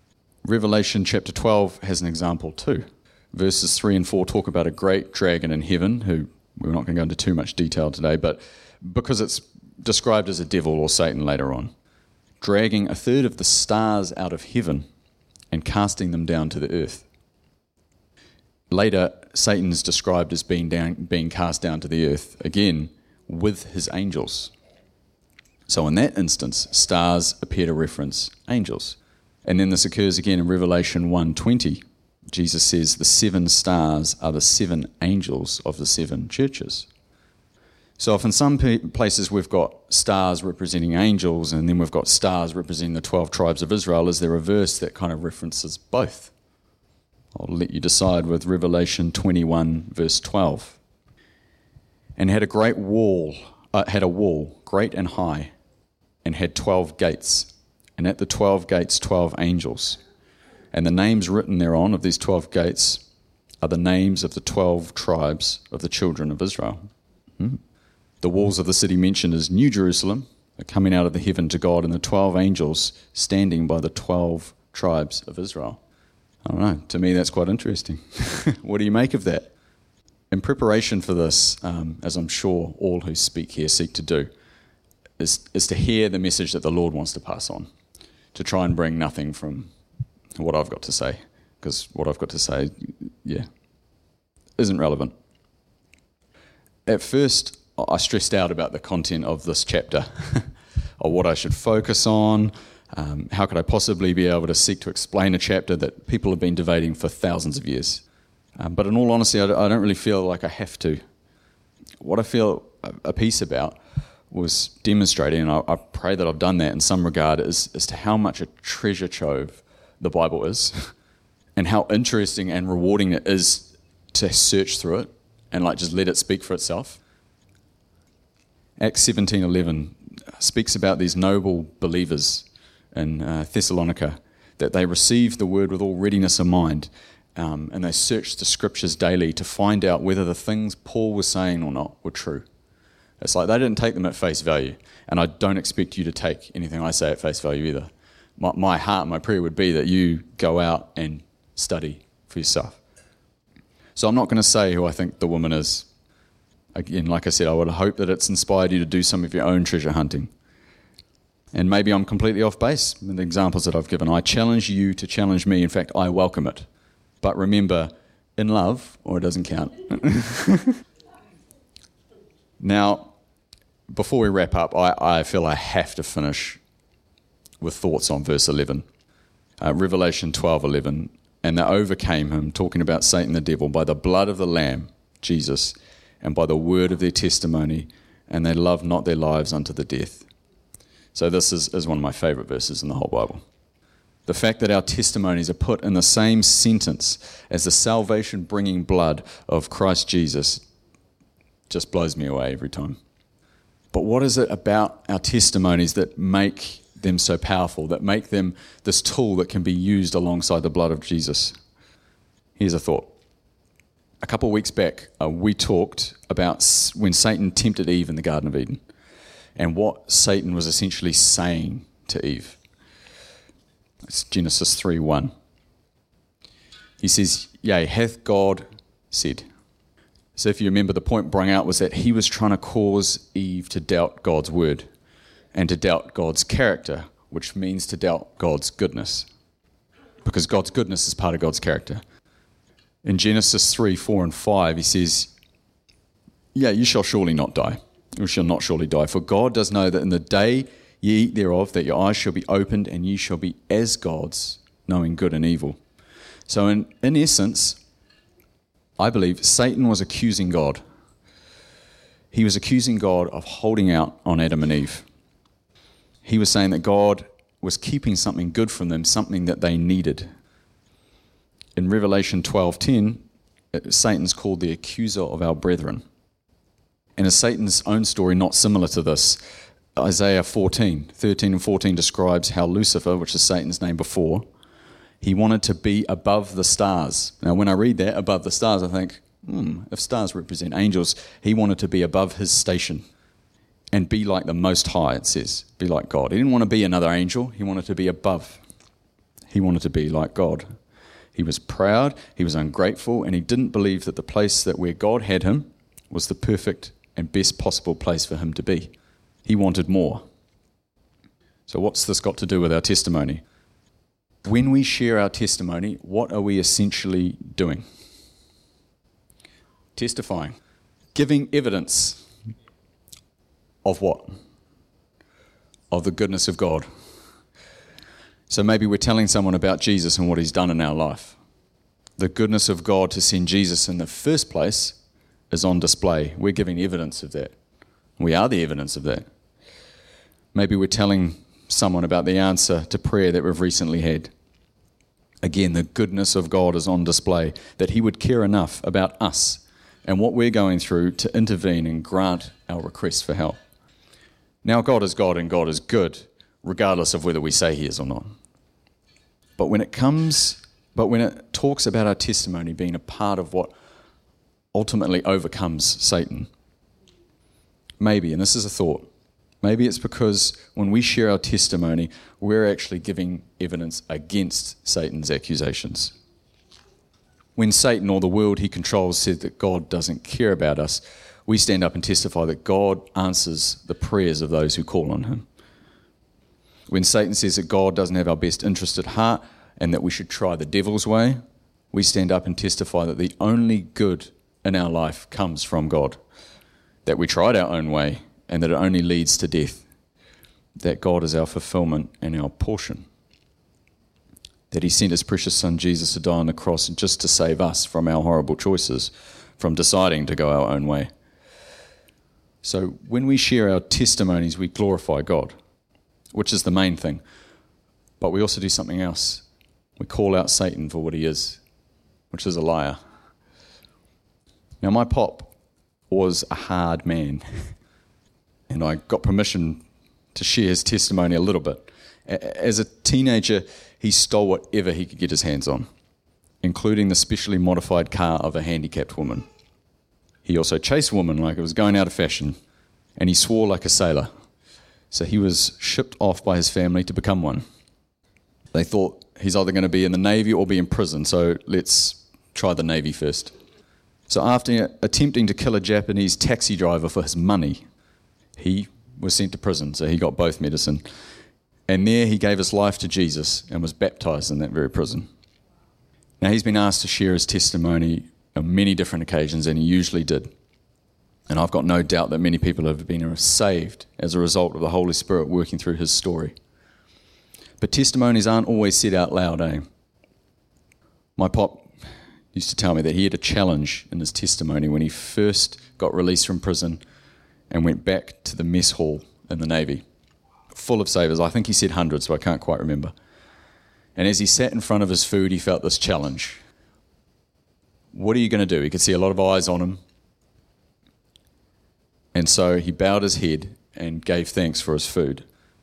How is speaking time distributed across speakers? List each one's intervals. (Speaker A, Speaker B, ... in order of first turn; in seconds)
Speaker A: 0.4-11.7, 12.4-14.8, 15.5-17.1, 18.7-24.5, 25.7-36.9, 38.0-46.3, 47.4-50.8, 52.2-55.5, 56.2-60.0, 60.7-63.0, 63.6-66.9, 68.2-75.8, 76.5-79.5, 80.3-84.3, 85.2-87.7, 88.3-89.7, 90.3-93.5, 94.6-95.1, 96.9-108.0, 108.6-111.0, 112.0-113.8, 114.3-120.9, 121.6-127.0, 128.8-142.5, 143.2-152.8, 154.0-155.9, 156.8-160.3, 161.5-166.7, 167.2-170.8, 172.6-173.1, 173.9-176.6, 177.6-178.8, 179.6-190.2, 191.1-193.4, 194.3-200.6, 201.7-203.0, 203.9-211.6, 212.6-213.1, 214.2-218.8, 219.6-222.6, 224.1-225.3, 227.0-229.5, 230.4-234.9, 235.5-239.3, 240.2-242.0, 243.0-245.3, 246.5-255.8, 256.5-257.8, 259.0-260.8, 262.3-265.1, 266.2-270.3, 271.8-276.0, 277.2-279.4, 279.9-284.5, 285.2-293.1, 293.9-298.6, 299.5-300.7, 301.3-308.9, 309.5-310.2, 311.7-313.4, 314.4-317.9, 319.9-320.6, 321.1-322.3, 323.9-324.4, 325.9-326.9, 328.5-331.4, 332.2-335.0, 335.5-337.6, 338.2-339.2, 340.5-344.3, 345.4-353.6, 354.6-358.3, 359.6-363.7, 364.7-366.5, 368.0-369.1, 369.6-376.1, 377.6-385.5, 386.9-391.4, 391.9-396.2, 397.1-399.8, 400.8-403.1, 404.7-411.1, 412.6-415.5, 416.3-417.2, 418.2-419.4, 420.0-421.6, 422.3-423.0, 424.8-425.5, 426.1-427.7, 428.7-429.8, 430.3-435.9, 436.6-439.5, 440.4-442.6, 443.2-444.3, 445.1-447.6, 448.7-453.5, 454.3-457.8, 458.6-461.0, 461.9-465.3, 466.4-470.5, 471.5-476.6, 477.8-479.8, 481.4-481.9, 482.5-487.0, 487.7-490.0, 490.7-493.1, 494.2-496.6, 498.1-500.0, 502.3-505.5